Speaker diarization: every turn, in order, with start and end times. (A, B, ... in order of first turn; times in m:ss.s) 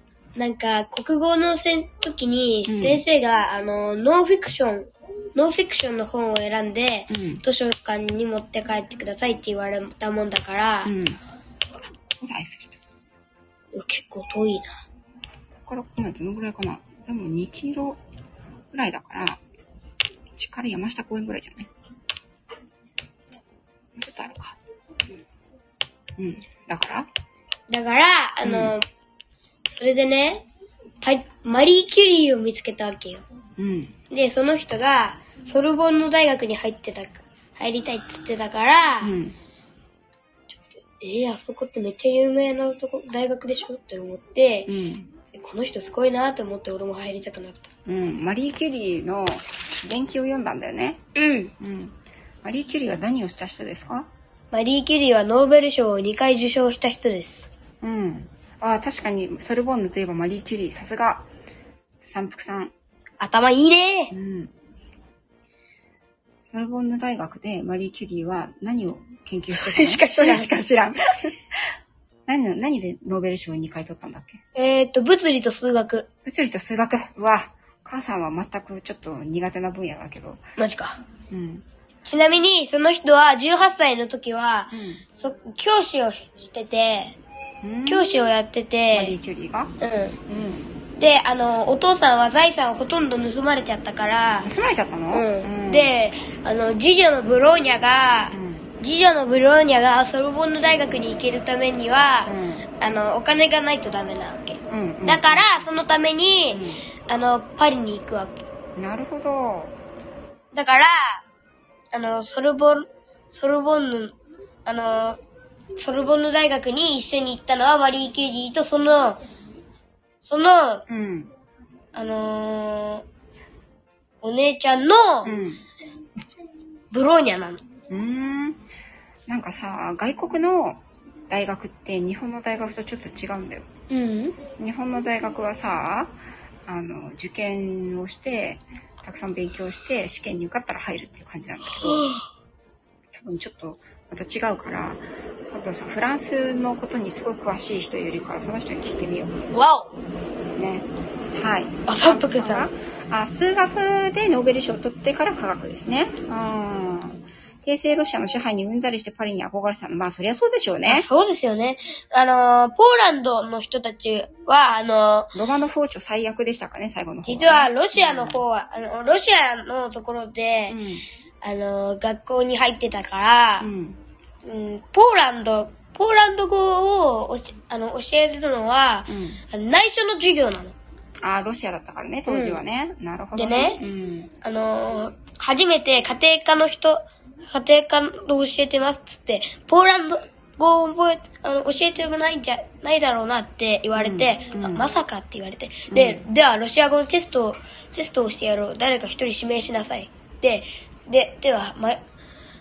0:00.4-0:11.0 A
0:02.7-0:03.0 B
0:07.1-0:07.4 B
0:10.8-0:11.2 B
0:12.2-0:12.8 B
0:13.7-0:14.8 A
0:15.7-0:18.0 B
0:18.7-0:19.4 B
0:20.4-0:21.7 B
0:24.0-0:24.6 B
0:26.2-0:27.1 B
0:27.7-0:28.8 A
0:28.4-0:28.8 B
0:29.7-0:30.5 A
0:31.0-0:33.3 A
0:33.6-0:34.0 B
0:34.1-0:39.2 A
0:39.0-0:39.4 B
0:40.5-0:44.7 A
0:44.7-0:45.1 B
0:45.3-0:47.7 A
0:47.9-0:51.0 B
0:51.2-0:51.5 A
0:51.6-0:54.1 B
0:54.5-0:57.5 A
0:57.8-1:01.3 B
1:02.0-1:02.7 B
1:03.2-1:04.1 A
1:04.1-1:04.5 B
1:06.5-1:11.4 B
1:09.5-1:10.5 A
1:12.3-1:14.4 B
1:14.6-1:16.1 A
1:16.2-1:20.4 B
1:20.6-1:21.0 A
1:21.3-1:21.7 B
1:22.0-1:27.2 A
1:24.7-1:25.0 B
1:27.6-1:28.2 B
1:27.9-1:29.2 A
1:28.9-1:29.7 B
1:29.8-1:30.2 A
1:30.3-1:30.8 B
1:30.9-1:34.5 A
1:34.4-1:35.9 B
1:35.1-1:48.4 A
1:38.3-1:38.7 B
1:42.3-1:42.7 B
1:44.7-1:45.7 B
1:46.5-1:46.9 B
1:48.8-1:49.8 B
1:50.5-1:51.2 A
1:51.9-1:55.2 A
1:55.8-1:59.2 A
2:00.2-2:00.8 A
2:00.9-2:01.3 B
2:01.9-2:03.0 A
2:04.2-2:05.4 A
2:05.2-2:05.6 B
2:06.9-2:07.6 A
2:07.9-2:08.6 B
2:09.3-2:13.7 B
2:13.9-2:14.4 A
2:14.6-2:22.1 B
2:21.7-2:22.2 A
2:23.1-2:29.4 B
2:29.5-2:29.9 A
2:30.6-2:41.1 B
2:31.9-2:32.7 A
2:40.9-2:45.3 A
2:45.3-2:48.4 B
2:47.2-2:50.8 A
2:50.7-2:51.0 B
2:51.4-2:53.7 A
2:53.6-2:54.0 B
2:54.4-3:00.8 A
2:59.1-2:59.4 B
3:01.2-3:04.3 B
3:02.3-3:02.6 A
3:03.4-3:03.8 A
3:04.4-3:22.0 A
3:14.0-3:14.9 B
3:15.9-3:16.2 B